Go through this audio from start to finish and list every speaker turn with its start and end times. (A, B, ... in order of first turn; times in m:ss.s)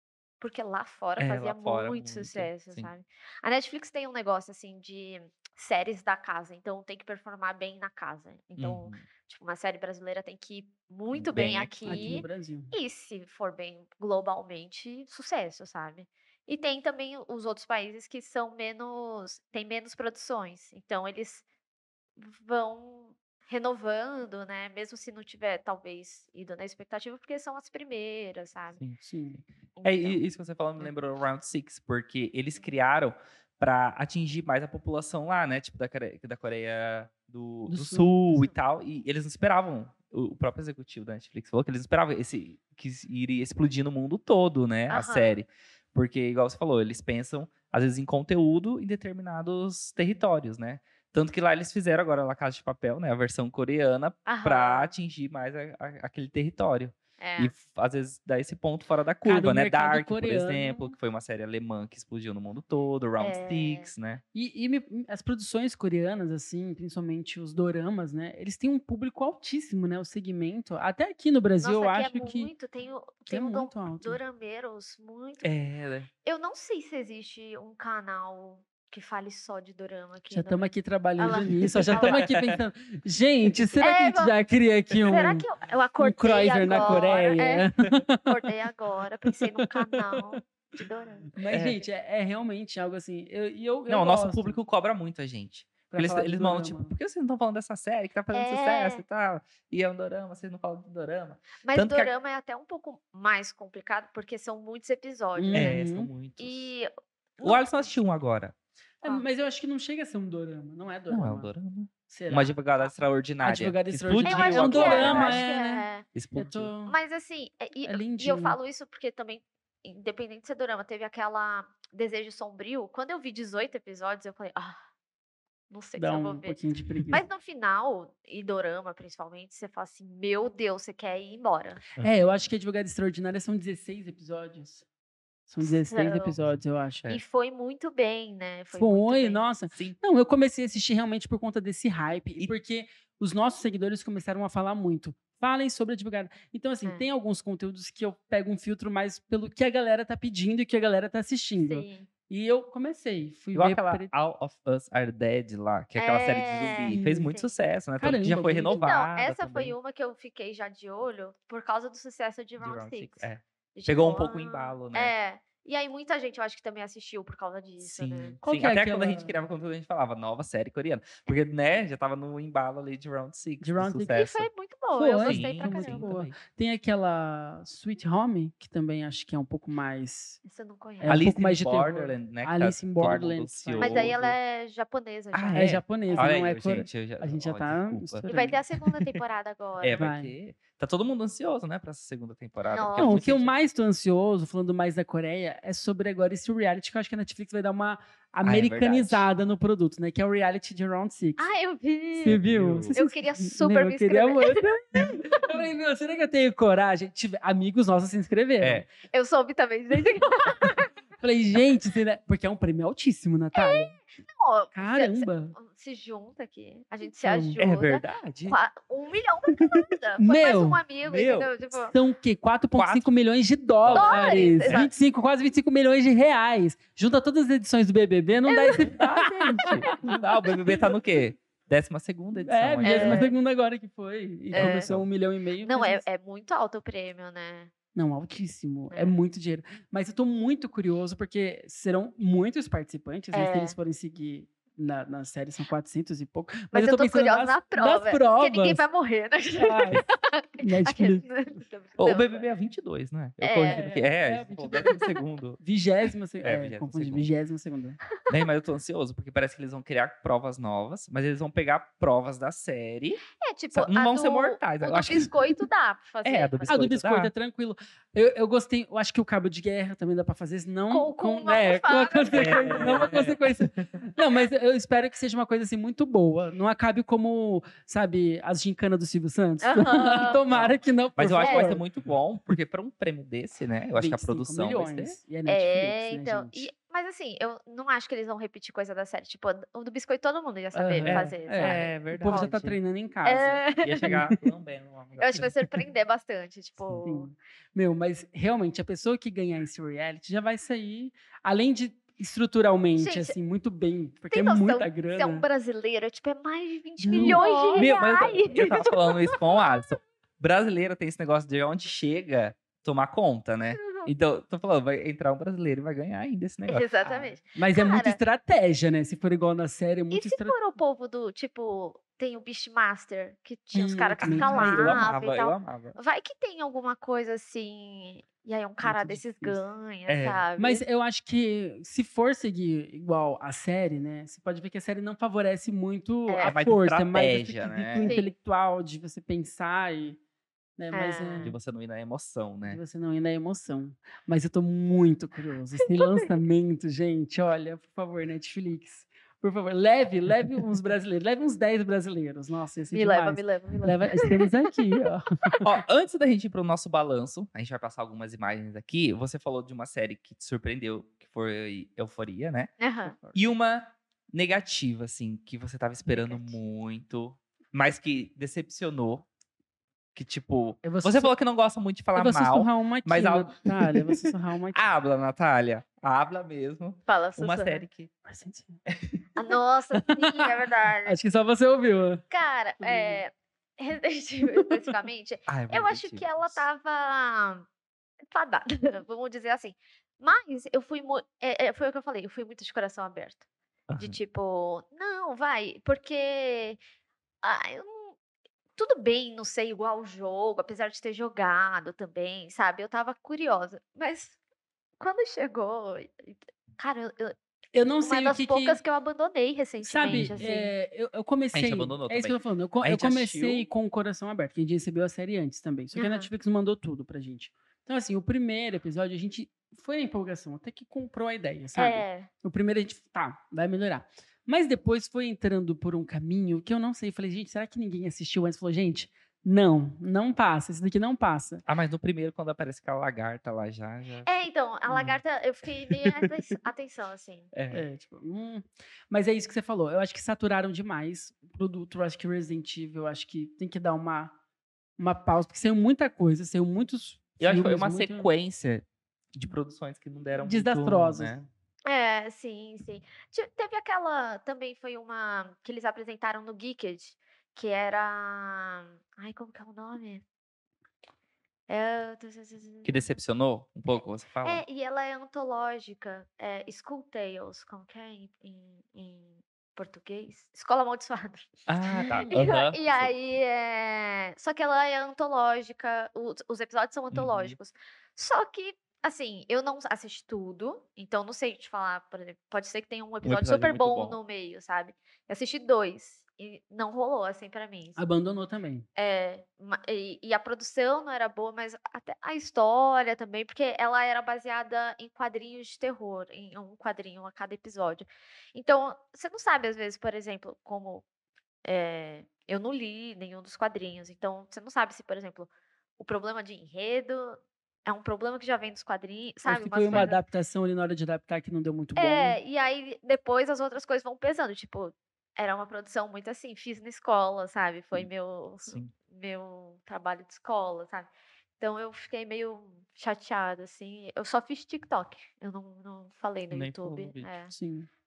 0:00.4-0:21.4 A
0:01.2-0:02.9 B
0:08.6-0:09.0 B
0:11.1-0:12.2 B
0:11.8-0:12.7 C
0:22.2-0:28.8 A
0:28.8-0:29.0 B
0:29.0-0:29.4 C
0:29.8-0:30.2 A
0:29.8-1:04.2 B
0:37.7-0:38.5 C
0:44.9-0:45.4 A
0:54.2-0:54.9 A
0:57.2-0:57.5 A
0:59.2-1:00.9 C
1:03.2-1:03.9 A
1:04.3-1:12.5 C
1:11.6-1:15.5 A
1:13.3-1:14.2 C
1:15.4-1:16.1 B
1:16.2-1:22.2 A
1:20.3-1:25.5 C
1:21.3-1:22.6 B
1:23.8-1:24.4 A
1:25.0-1:27.7 A
1:26.0-1:28.4 C
1:26.6-1:27.7 B
1:28.2-1:31.3 A
1:29.2-1:30.4 C
1:31.3-1:34.6 C
1:31.5-1:31.8 B
1:33.9-1:42.1 B
1:35.9-1:36.9 C
1:38.3-1:39.0 A
1:41.6-1:45.8 A
1:45.4-1:46.1 C
1:45.5-1:46.7 B
1:46.4-1:47.9 A
1:47.4-1:48.5 B
1:49.0-1:51.5 C
1:51.1-1:55.4 B
1:52.1-1:52.5 C
1:53.4-1:57.0 C
1:54.2-1:56.0 A
1:56.1-1:56.7 B
1:56.9-2:04.8 A
1:57.8-1:58.6 C
2:05.7-2:06.6 A
2:06.0-2:07.2 C
2:07.1-2:11.8 A
2:12.0-2:14.8 C
2:15.5-2:17.0 C
2:15.6-2:16.4 A
2:16.4-2:17.2 B
2:17.1-2:19.4 A
2:18.7-2:34.1 C
2:19.7-2:20.0 B
2:31.6-2:32.1 A
2:33.5-2:39.7 B
2:36.0-2:37.5 A
2:36.9-2:37.3 C
2:38.0-2:38.8 C
2:38.7-2:48.4 A
2:42.6-2:45.1 B
2:47.8-2:54.5 B
2:48.4-2:49.4 C
2:53.6-2:54.2 C
2:54.1-2:56.1 A
2:54.9-3:00.4 C
2:55.2-2:56.3 B
3:00.4-3:01.2 A
3:01.0-3:04.2 C
3:01.0-3:04.3 B
3:03.8-3:06.4 A
3:05.3-3:08.4 B
3:05.5-3:08.6 C
3:08.3-3:10.0 A
3:09.8-3:13.5 B
3:10.0-3:10.3 C
3:12.7-3:13.2 A
3:13.0-3:21.5 C
3:18.4-3:19.3 B
3:21.4-3:22.4 A
3:22.1-3:28.8 C
3:22.2-3:22.9 B
3:22.9-3:24.7 A
3:28.6-3:28.9 B
3:29.0-3:30.9 A
3:31.2-3:33.9 C
3:33.5-3:41.9 A
3:34.7-3:35.5 C
3:37.2-3:37.6 C
3:37.6-3:38.6 B
3:40.2-3:40.8 C
3:41.0-3:41.5 B
3:41.8-3:50.0 C
3:42.8-3:43.1 B
3:43.8-3:44.9 B
3:43.9-3:44.9 A
3:48.5-3:50.2 A
3:49.0-3:53.3 B
3:52.3-3:56.0 C
3:52.8-3:53.3 A
3:54.5-3:54.9 A
3:54.5-3:55.1 B
3:55.6-3:57.7 A
3:57.9-4:08.8 C
4:03.3-4:03.8 A
4:06.7-4:12.5 A
4:09.6-4:10.0 C
4:10.6-4:11.3 C
4:12.0-4:15.6 B
4:13.4-4:13.9 A
4:13.7-4:15.0 C
4:15.6-4:18.0 C
4:16.4-4:17.3 B
4:18.3-4:25.5 B
4:23.4-4:26.7 A
4:26.2-4:27.3 B
4:26.7-4:41.8 C
4:30.9-4:33.3 A
4:32.3-4:34.0 B
4:39.6-4:40.4 A
4:40.4-4:45.2 B
4:41.4-4:41.8 A
4:44.0-4:46.7 C
4:45.4-4:52.5 A
4:50.7-4:54.4 C
4:51.0-4:52.8 B
4:53.2-4:54.1 A
4:53.8-4:55.5 B
4:55.2-4:57.3 A
4:57.0-5:05.4 C
5:03.0-5:03.4 A
5:04.3-5:09.4 A
5:07.0-5:08.2 C
5:07.1-5:17.3 B
5:13.8-5:14.1 A
5:16.7-5:18.2 A
5:17.5-5:20.6 C
5:20.1-5:30.8 A
5:23.7-5:25.1 C
5:24.2-5:26.0 B
5:28.8-5:29.6 C
5:30.1-5:30.4 B
5:30.6-5:40.2 C
5:36.3-5:36.6 A
5:36.4-5:38.1 B
5:38.0-5:38.3 A
5:40.8-5:41.5 C
5:40.9-5:41.5 A
5:41.4-5:42.8 B
5:42.6-5:55.8 C
5:46.0-5:46.3 A
5:52.9-5:54.8 A
5:55.6-6:02.7 B
6:02.8-6:03.1 A
6:03.0-6:03.4 C
6:03.3-6:09.2 B
6:06.1-6:06.6 A
6:10.1-6:18.1 B
6:10.8-6:11.3 C
6:12.1-6:14.8 C
6:17.1-6:17.8 A
6:18.2-6:18.8 C
6:19.4-6:21.2 A
6:20.1-6:20.5 C
6:21.0-6:22.2 C
6:22.3-6:27.6 A
6:22.8-6:23.2 C
6:25.5-6:26.6 B
6:28.3-6:33.4 A
6:33.9-6:34.2 B
6:34.0-6:36.8 A
6:37.4-6:38.1 A
6:38.8-6:44.4 A
6:45.0-6:47.4 A
6:47.7-6:48.8 C
6:48.0-6:50.7 A
6:49.8-7:11.6 C
6:50.0-6:50.4 B
6:51.5-6:53.7 B
6:55.9-6:56.3 A
7:01.7-7:02.3 A
7:11.6-7:14.3 B
7:14.2-7:17.5 A
7:14.9-7:15.2 B
7:15.9-7:16.3 B
7:17.5-7:17.8 B
7:17.7-7:24.3 C
7:25.0-7:28.3 C
7:27.4-7:31.5 B
7:30.4-7:31.4 C
7:31.8-7:40.2 A
7:41.7-7:43.0 A
7:42.8-7:44.6 B
7:44.4-8:08.0 A
7:51.7-7:53.1 B
7:52.0-7:52.3 C
7:57.1-7:57.6 B
8:03.2-8:04.2 B
8:08.0-8:08.8 C
8:09.0-8:21.0 A
8:21.6-8:30.2 A
8:29.4-8:32.4 C
8:32.0-8:47.5 A
8:38.6-8:38.9 B
8:46.5-8:47.3 B
8:47.5-8:47.9 C